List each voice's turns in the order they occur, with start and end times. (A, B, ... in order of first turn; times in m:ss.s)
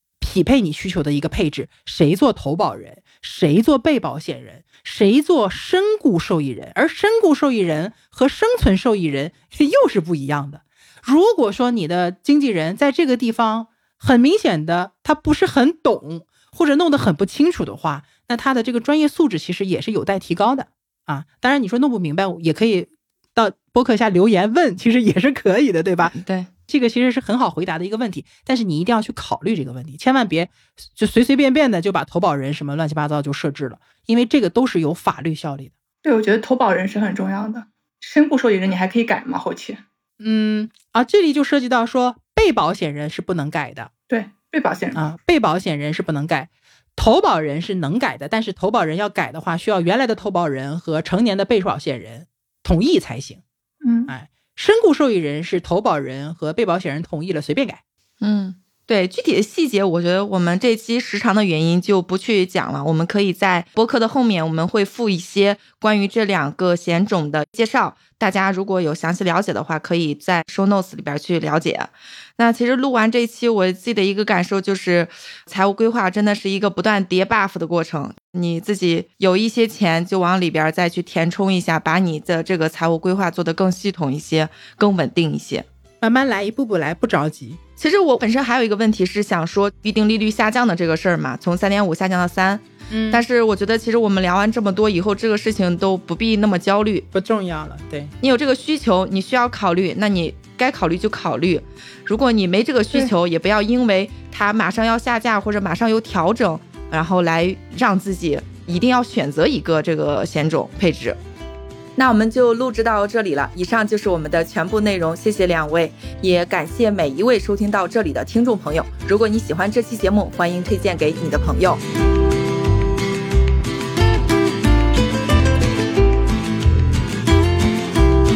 0:00.2-0:26.2 A
0:26.1-0:26.5 B
0:26.7-0:35.7 A
0:36.0-0:39.8 C
0:40.2-0:43.9 A
0:44.1-0:45.0 C
0:44.9-0:53.4 A
0:53.8-0:54.1 C
0:54.1-0:57.8 A
0:58.2-1:25.6 B
1:26.0-1:27.6 A
1:27.8-1:37.1 B
1:32.9-1:33.2 A
1:37.1-1:38.1 A
1:38.2-1:51.2 B
1:52.0-2:01.8 B